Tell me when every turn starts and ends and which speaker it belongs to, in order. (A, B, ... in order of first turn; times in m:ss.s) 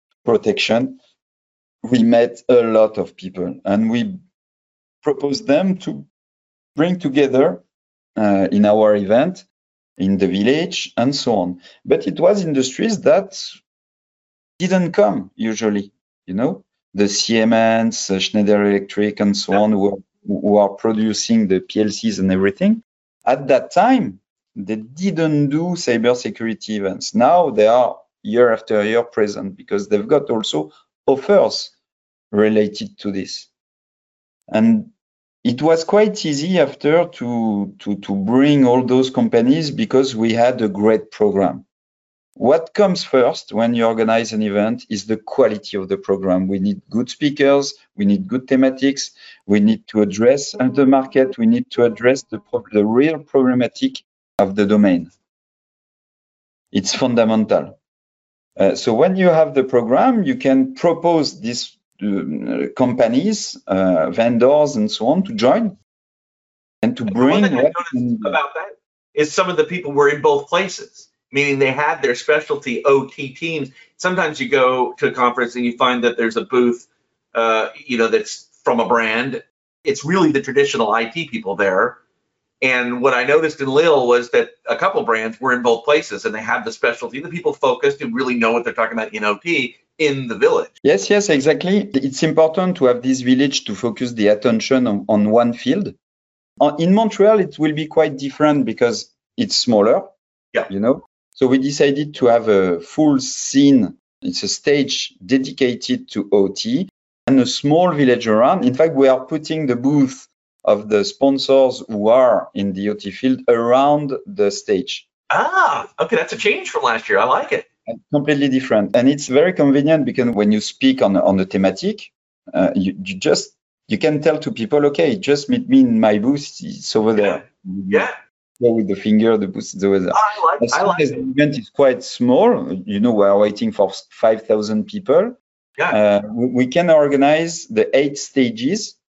0:00.2-0:01.0 A
0:01.8-0:04.2 A
0:05.0-0:06.0 A
0:06.8-0:07.6 A
0:08.2-0:09.4 A
0:10.0-0:13.6 A
0:14.6-0:31.7 A
0:32.3-0:33.5 A
0:34.5-0:34.9 A
0:35.4-0:41.6 A
0:42.4-0:55.1 A
0:56.7-0:57.8 A
0:58.6-1:05.8 A
1:06.8-1:08.4 A
1:07.1-1:22.0 B
1:22.6-1:30.7 B
1:30.8-1:35.9 A
1:36.6-1:40.1 A
1:40.7-1:55.0 A
1:55.3-1:57.6 B
1:57.9-2:08.1 A
2:07.2-2:08.2 B
2:08.6-2:15.4 A
2:10.1-2:11.2 B
2:15.9-2:19.0 A